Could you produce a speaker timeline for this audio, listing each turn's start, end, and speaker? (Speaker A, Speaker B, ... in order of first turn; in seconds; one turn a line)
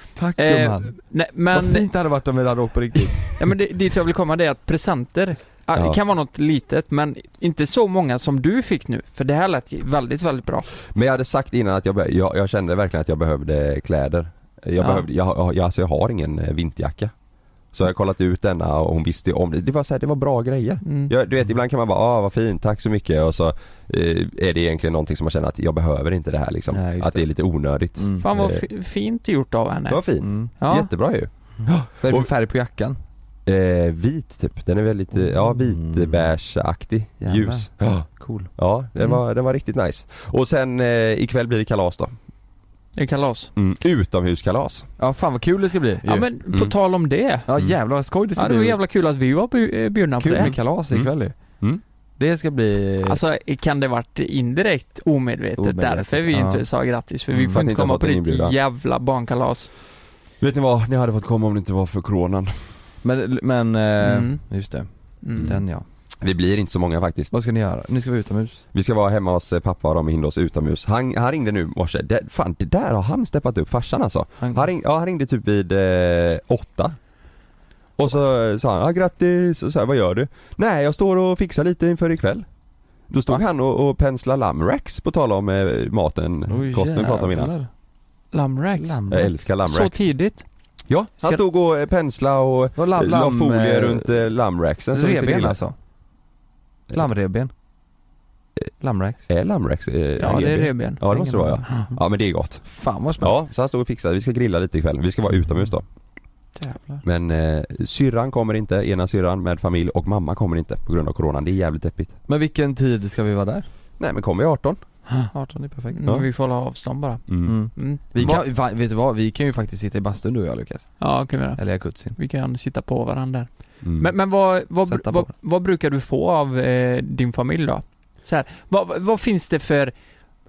Speaker A: 0.1-0.9
Speaker B: 0.4-1.9
Speaker A: 1.5-3.4
Speaker B: 3.4-10.7
Speaker C: 10.9-17.1
Speaker B: 14.8-15.1
Speaker C: 17.7-28.6
Speaker B: 20.9-21.1
Speaker A: 26.7-27.3
Speaker A: 27.9-28.3
Speaker B: 28.2-30.0
Speaker C: 29.9-32.3
Speaker A: 30.2-30.5
Speaker B: 30.6-30.9
Speaker A: 31.6-33.0
Speaker C: 33.5-42.1
Speaker A: 35.1-36.3
Speaker A: 37.2-38.5
Speaker B: 43.0-43.5
Speaker C: 43.5-44.9
Speaker A: 45.0-46.3
Speaker B: 46.0-47.5
Speaker A: 47.5-48.8
Speaker B: 48.4-50.5
Speaker A: 50.2-51.4
Speaker C: 50.5-51.8
Speaker A: 52.2-53.2
Speaker B: 53.0-59.7
Speaker A: 55.6-56.6
Speaker C: 57.4-58.5
Speaker C: 60.4-62.8
Speaker A: 63.0-65.9
Speaker B: 64.0-64.4
Speaker B: 65.2-65.5
Speaker C: 66.2-67.3
Speaker A: 67.3-68.6
Speaker C: 68.7-77.0
Speaker C: 78.0-82.5
Speaker C: 83.1-87.5
Speaker A: 86.5-87.7
Speaker B: 88.3-90.5
Speaker A: 88.8-89.3
Speaker C: 89.1-90.0
Speaker C: 90.9-95.6
Speaker A: 92.8-94.1
Speaker A: 94.9-95.7
Speaker A: 96.9-97.5
Speaker A: 98.8-99.2
Speaker C: 99.3-105.8
Speaker B: 100.2-101.8
Speaker A: 102.6-103.3
Speaker A: 106.6-107.0
Speaker C: 107.0-112.2
Speaker A: 112.3-113.7
Speaker C: 114.0-114.8
Speaker A: 115.3-116.0
Speaker B: 115.9-118.0
Speaker C: 117.3-117.6
Speaker A: 117.4-122.2
Speaker C: 118.1-118.4
Speaker B: 121.0-129.9
Speaker C: 123.8-124.1
Speaker A: 124.9-125.3